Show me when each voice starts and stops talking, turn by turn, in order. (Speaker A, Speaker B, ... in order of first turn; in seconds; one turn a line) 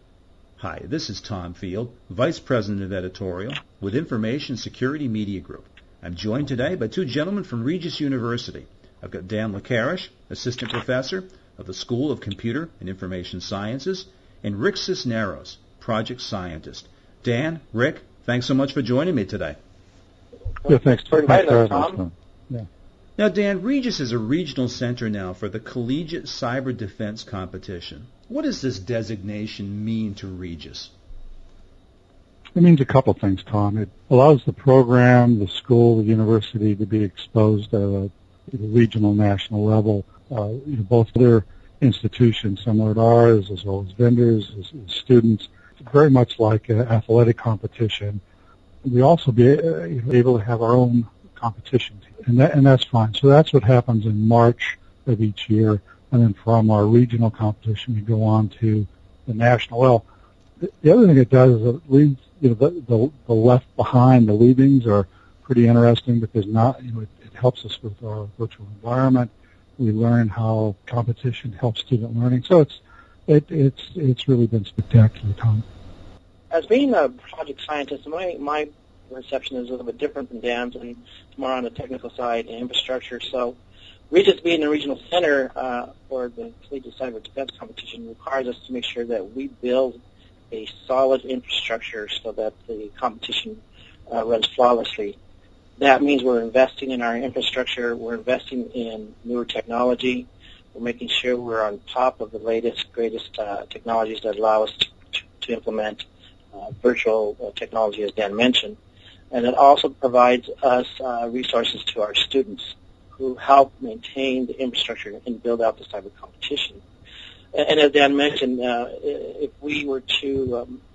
Speaker A: 0.6-19.6
Speaker B: 20.6-22.0
Speaker C: 20.6-22.7
Speaker A: 23.2-30.9
Speaker C: 32.5-48.2
Speaker C: 48.8-60.0
Speaker C: 60.6-75.6
Speaker B: 76.5-83.6
Speaker B: 84.1-90.0
Speaker B: 90.5-95.2
Speaker B: 95.8-106.0
Speaker B: 106.5-108.8
Speaker B: 109.3-116.8
Speaker B: 117.5-120.8